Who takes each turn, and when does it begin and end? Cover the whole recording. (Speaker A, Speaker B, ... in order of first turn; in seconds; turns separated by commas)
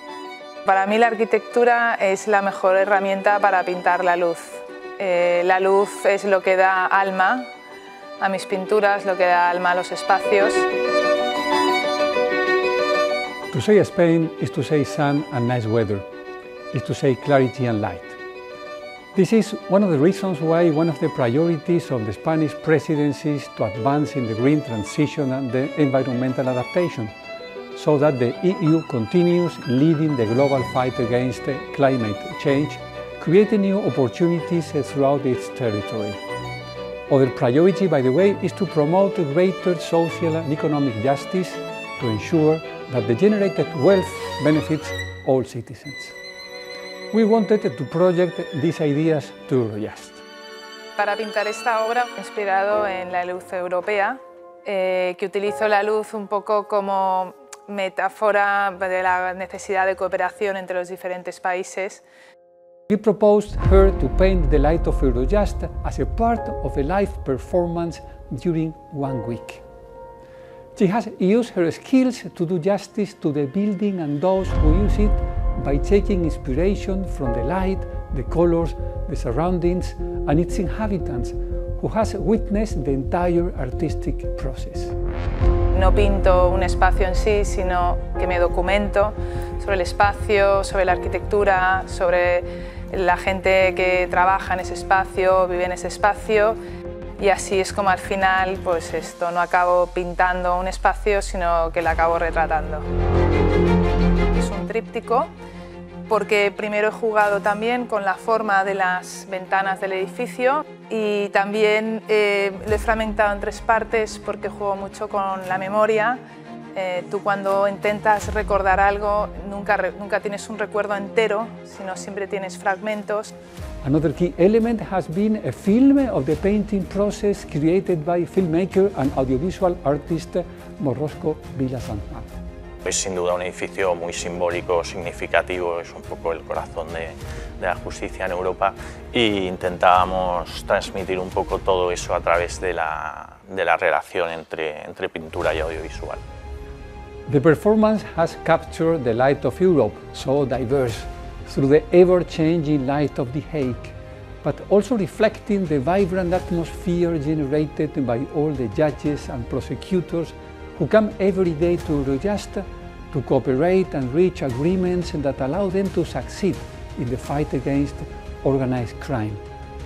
Speaker A: 0.6-7.5, Speaker A: 8.2-10.7, Speaker B: 13.5-16.0, Speaker B: 16.7-18.2, Speaker B: 19.1-27.1, Speaker B: 27.7-36.2, Speaker B: 37.1-46.1, Speaker B: 47.1-50.2, Speaker A: 51.0-62.0, Speaker B: 62.9-69.6, Speaker B: 70.8-85.0, Speaker A: 85.7-96.6, Speaker A: 97.2-102.8, Speaker A: 104.3-105.3, Speaker A: 106.1-116.2, Speaker A: 116.7-123.3, Speaker B: 123.8-132.4, Speaker C: 132.8-146.2, Speaker B: 147.3-169.4